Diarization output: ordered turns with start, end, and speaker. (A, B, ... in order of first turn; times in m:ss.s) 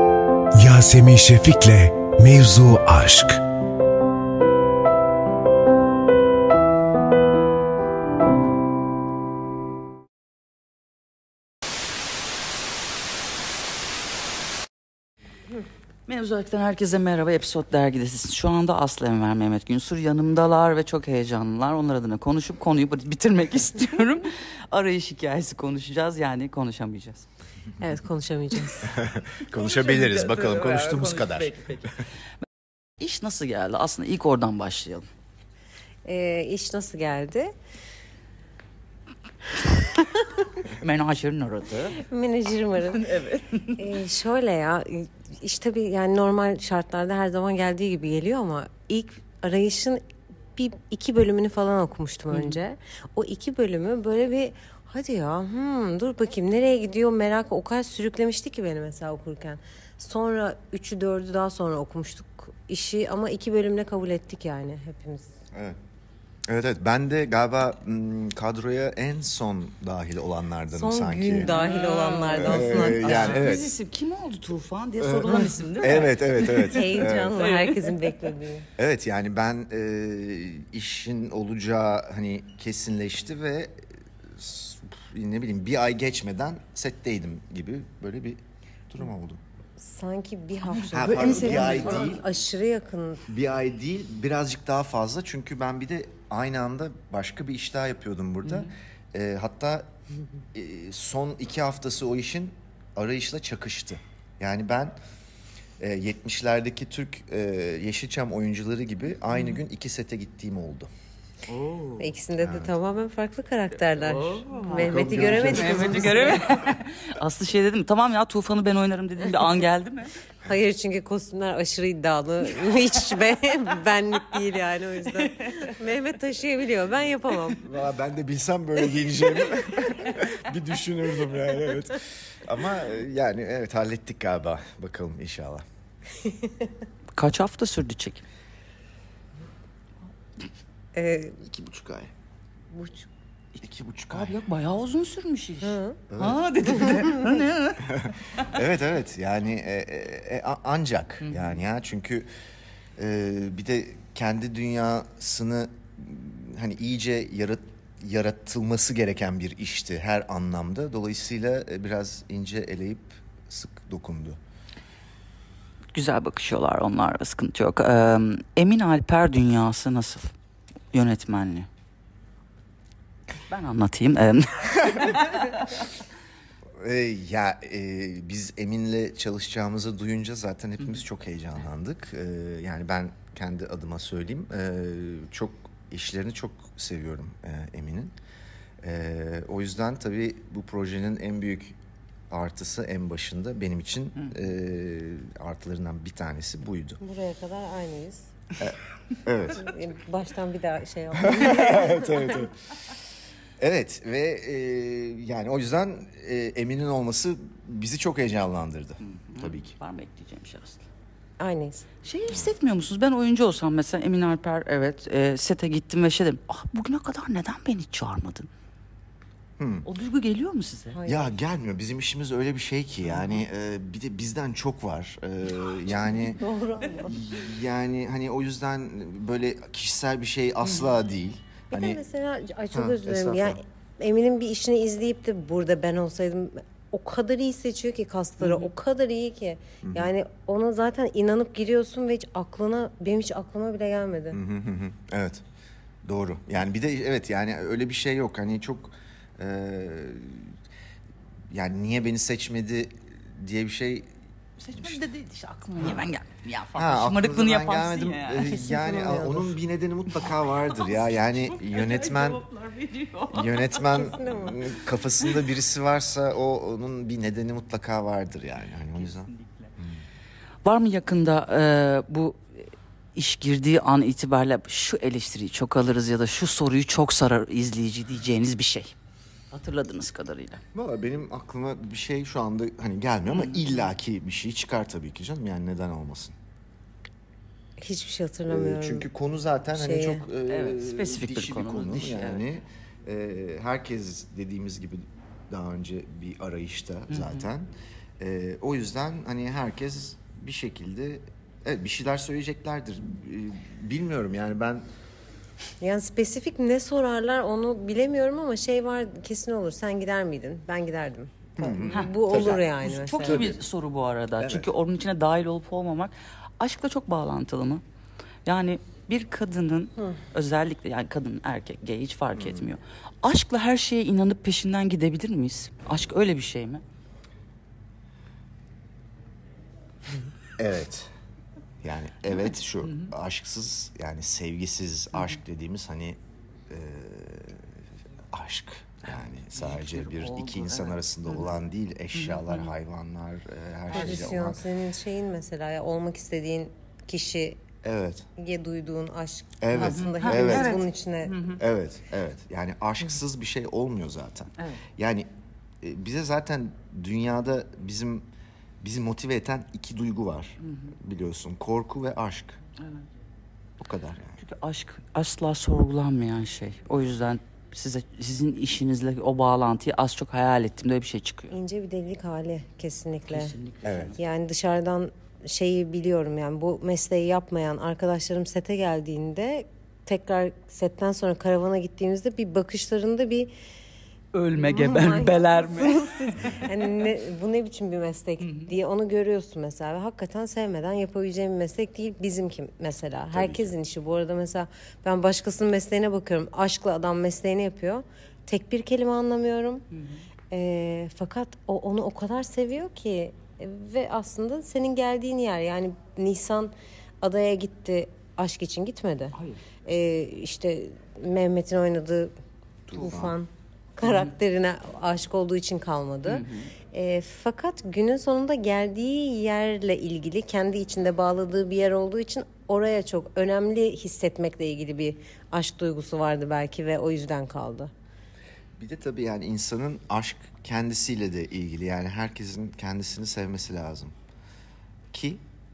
0:00.5-0:03.4 A
0:16.1-0:27.2 B
0:27.8-0:29.0 C
0:28.8-0:31.7 D
0:29.5-0:31.9 B
0:33.0-0:35.1 B
0:36.0-0:37.5 C
0:40.6-0:42.0 B
0:42.0-0:43.1 C
0:43.0-0:43.8 B
0:43.8-0:50.0 C
0:50.6-1:05.3 C
0:52.3-0:52.6 B
1:06.5-1:11.5 D
1:10.7-1:13.5 C
1:11.4-1:17.9 B
1:12.4-1:13.7 D
1:15.0-1:17.3 D
1:15.2-1:15.6 C
1:16.6-1:18.7 C
1:18.8-1:23.8 D
1:24.3-1:29.4 D
1:29.8-1:33.2 C
1:30.7-1:32.2 B
1:30.9-1:32.2 D
1:33.3-1:39.9 D
1:38.4-1:38.7 B
1:40.5-1:44.9 D
1:45.8-1:50.9 D
1:49.3-1:49.6 B
1:51.5-1:52.0 B
1:52.0-1:56.4 C
1:52.4-1:52.8 D
1:54.1-2:00.1 B
1:54.7-1:56.4 D
2:00.4-2:07.6 C
2:07.6-2:15.6 D
2:17.1-2:18.2 B
2:20.9-2:21.4 C
2:21.4-2:22.1 D
2:22.7-2:23.1 C
2:23.6-2:24.4 D
2:24.1-2:28.5 B
2:25.6-2:26.0 C
2:26.1-2:26.4 D
2:27.8-2:32.3 D
2:31.2-2:31.6 B
2:33.0-2:44.4 D
2:45.9-2:50.3 B
2:50.9-2:51.7 B
2:53.5-2:55.9 B
2:56.8-3:08.1 D
3:08.8-3:11.8 D
3:12.3-3:17.0 D
3:17.0-3:18.3 C
3:18.6-3:19.7 D
3:19.5-3:22.5 C
3:21.2-3:22.5 D
3:23.6-3:29.7 D
3:29.0-3:30.8 B
3:31.4-3:31.8 C
3:32.0-3:38.5 B
3:39.6-3:39.8 D
3:39.8-3:41.0 B
3:40.9-3:41.4 C
3:41.0-3:46.4 D
3:43.0-3:43.4 B
3:46.0-3:47.2 C
3:47.0-3:52.0 D
3:50.6-3:50.9 B
3:51.7-4:04.4 C
3:52.7-3:53.6 D
3:58.4-3:58.7 B
3:59.8-4:00.1 D
4:04.3-4:05.4 D
4:06.0-4:10.5 D
4:11.5-4:14.1 D
4:14.6-4:18.6 B
4:16.7-4:22.4 D
4:18.5-4:19.5 C
4:20.2-4:25.4 B
4:23.3-4:30.0 D
4:23.8-4:24.6 C
4:28.9-4:29.7 B
4:30.6-4:32.6 B
4:33.1-4:38.9 B
4:39.5-4:40.6 B
4:40.7-4:46.3 D
4:43.3-4:43.9 B
4:47.8-4:49.1 C
4:48.5-5:04.8 D
4:49.7-4:50.2 C
4:50.5-4:52.4 B
4:57.1-4:57.4 B
5:05.8-5:13.5 C
5:11.6-5:12.6 D
5:11.8-5:17.8 B
5:13.2-5:13.6 D
5:14.4-5:14.7 D
5:18.4-5:26.8 B
5:22.3-5:22.7 D
5:30.6-5:31.1 D
5:31.8-5:36.2 D
5:36.7-5:37.7 D
5:38.3-5:44.6 D
5:39.5-5:41.5 B
5:42.1-5:42.7 B
5:43.9-5:47.6 C
5:43.9-5:44.3 B
5:47.8-5:48.3 D
5:48.4-5:51.4 C
5:49.6-5:50.8 D
5:49.7-5:51.6 B
5:51.6-5:55.3 D
5:55.8-5:58.2 D
5:58.8-6:02.6 D
6:00.6-6:00.9 B
6:03.8-6:04.4 D
6:04.4-6:11.6 B
6:11.5-6:13.5 C
6:13.3-6:14.2 B
6:13.8-6:14.2 D
6:14.2-6:23.5 C
6:24.3-6:26.1 B
6:24.5-6:39.8 C
6:28.4-6:28.7 B
6:33.3-6:33.7 D
6:40.5-6:52.3 C
6:52.9-6:53.4 D
6:52.9-7:07.9 C
6:54.0-6:54.3 B
6:56.2-6:56.7 B
7:08.8-7:14.1 D
7:15.1-7:15.4 D